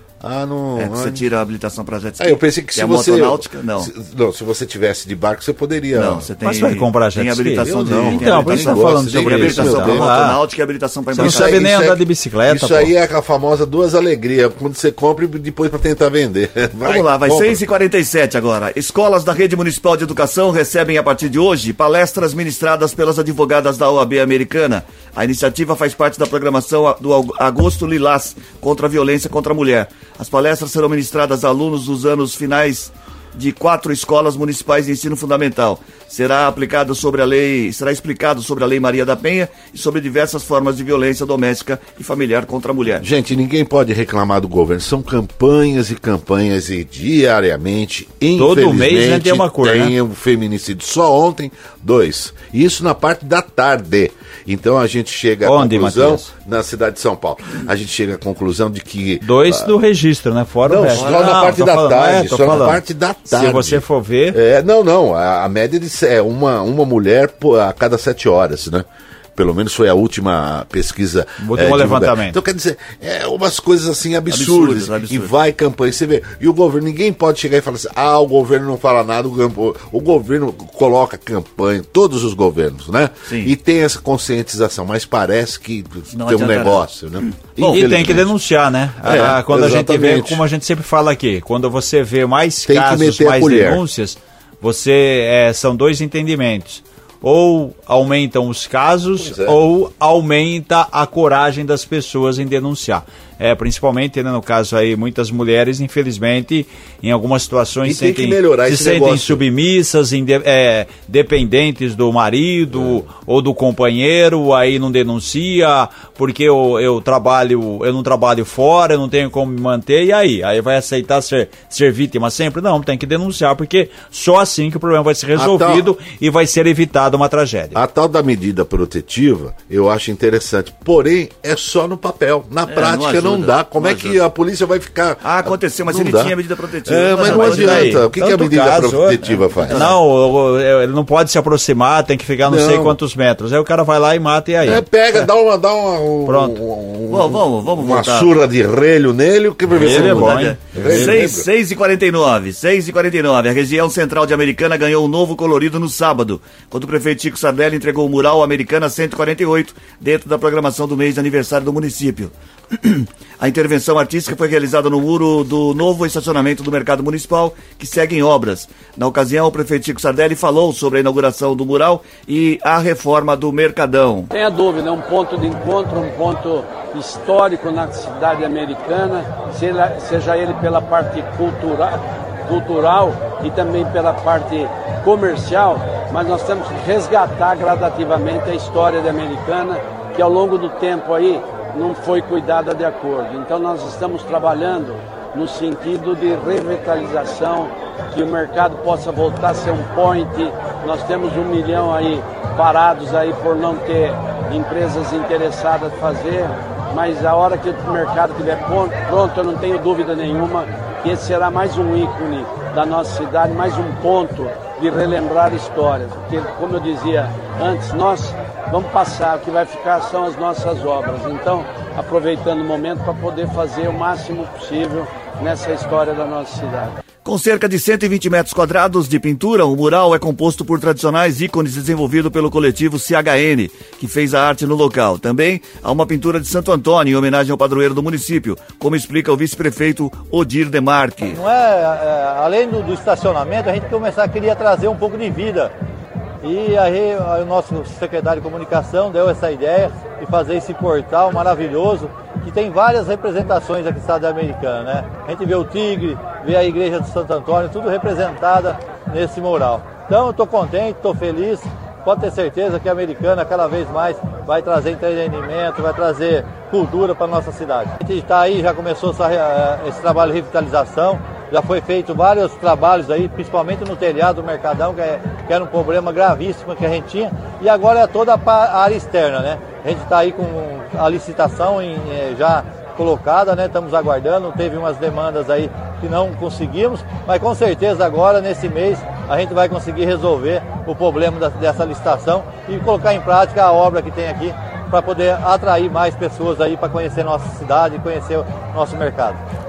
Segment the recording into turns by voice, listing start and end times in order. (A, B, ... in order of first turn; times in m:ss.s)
0:00.2-0:01.2 A
0:00.8-0:03.9 B
0:02.2-0:06.3 A
0:06.0-0:11.7 B
0:06.4-0:10.4 C
0:07.6-0:10.1 A
0:11.1-0:12.9 C
0:11.2-0:17.6 A
0:16.8-0:43.0 B
0:43.0-0:59.8 A
0:48.4-0:50.0 C
0:55.4-0:56.3 C
0:59.2-1:04.4 C
1:00.6-1:28.3 A
1:00.9-1:01.4 B
1:11.4-1:12.4 C
1:14.3-1:15.3 B
1:23.3-1:23.5 B
1:26.1-1:28.0 B
1:27.6-2:07.8 C
1:29.0-1:30.4 A
1:32.7-1:33.8 A
1:39.2-1:39.6 A
1:47.8-1:49.4 A
1:52.7-1:53.0 A
2:05.4-2:05.9 A
2:07.7-2:19.9 A
2:12.7-2:14.2 B
2:15.2-2:18.0 B
2:17.3-2:24.8 C
2:19.6-2:20.0 B
2:22.5-2:23.0 A
2:24.6-2:31.5 A
2:26.3-2:26.6 C
2:27.1-2:28.3 B
2:29.7-2:31.3 C
2:29.8-2:54.3 B
2:54.3-3:47.0 D
3:47.2-4:01.4 B
4:01.2-4:05.7 E
4:06.4-4:59.4 E